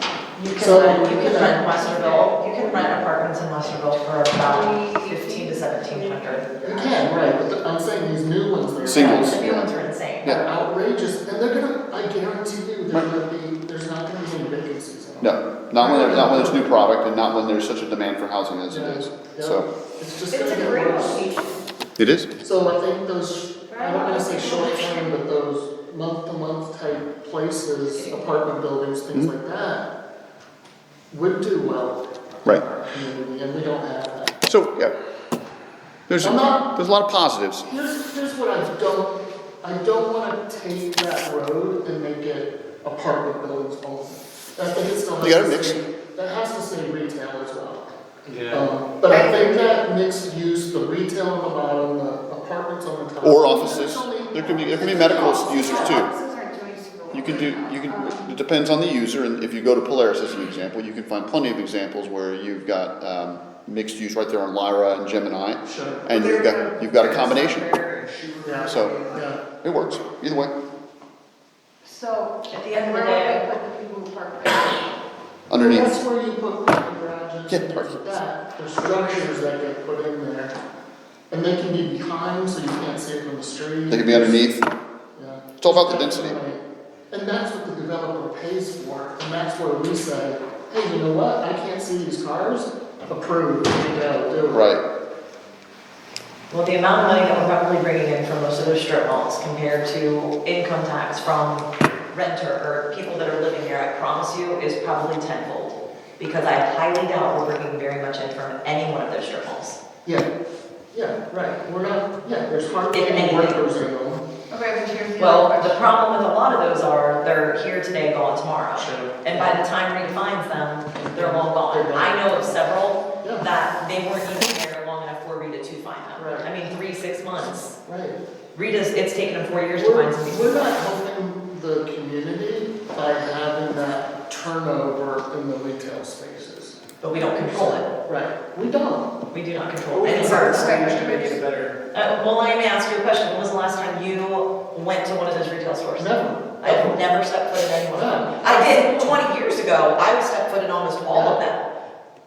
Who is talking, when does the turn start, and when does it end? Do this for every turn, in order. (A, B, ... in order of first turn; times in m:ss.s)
0:00.4-0:06.5 A
0:00.6-0:01.6 B
0:00.6-0:03.0 C
0:04.4-0:06.9 C
0:06.6-0:09.7 B
0:08.8-0:09.5 D
0:08.9-0:10.4 A
0:10.2-0:16.8 B
0:15.2-0:19.7 D
0:18.7-0:21.3 B
0:20.3-0:21.6 C
0:22.0-0:22.3 D
0:22.4-0:29.9 B
0:23.7-0:25.1 C
0:27.9-0:28.4 C
0:31.1-0:34.4 B
0:34.5-0:34.9 D
0:36.1-0:37.7 D
0:36.2-0:36.7 B
0:37.6-0:47.9 B
0:45.2-0:45.8 D
0:48.3-0:48.7 E
0:48.5-0:56.0 B
0:49.1-0:49.5 C
0:53.2-0:56.1 D
0:54.8-0:58.3 C
0:57.1-1:07.7 D
1:05.6-1:06.1 B
1:06.1-1:07.9 C
1:07.0-1:09.4 E
1:08.4-1:09.4 B
1:08.7-1:09.0 D
1:09.6-1:10.5 D
1:11.8-1:14.9 C
1:12.5-1:13.4 A
1:15.5-1:16.0 D
1:15.5-1:20.6 B
1:17.5-1:18.0 D
1:21.3-1:24.5 B
1:23.9-1:24.6 D
1:25.2-1:34.7 B
1:25.6-1:26.4 D
1:34.5-1:34.8 D
1:36.5-1:49.8 A
1:50.9-1:54.2 B
1:52.9-1:53.6 A
1:54.5-1:55.8 C
1:55.2-2:07.8 A
1:58.8-1:59.6 B
2:01.0-2:02.6 B
2:03.2-2:03.5 B
2:06.2-2:06.5 B
2:07.8-2:08.2 B
2:08.5-2:10.8 A
2:09.8-2:19.1 B
2:17.0-2:17.9 A
2:19.3-2:20.8 A
2:19.9-2:21.8 E
2:20.1-2:21.4 C
2:21.9-2:31.6 A
2:26.0-2:27.0 B
2:27.9-2:29.2 B
2:31.1-2:31.4 B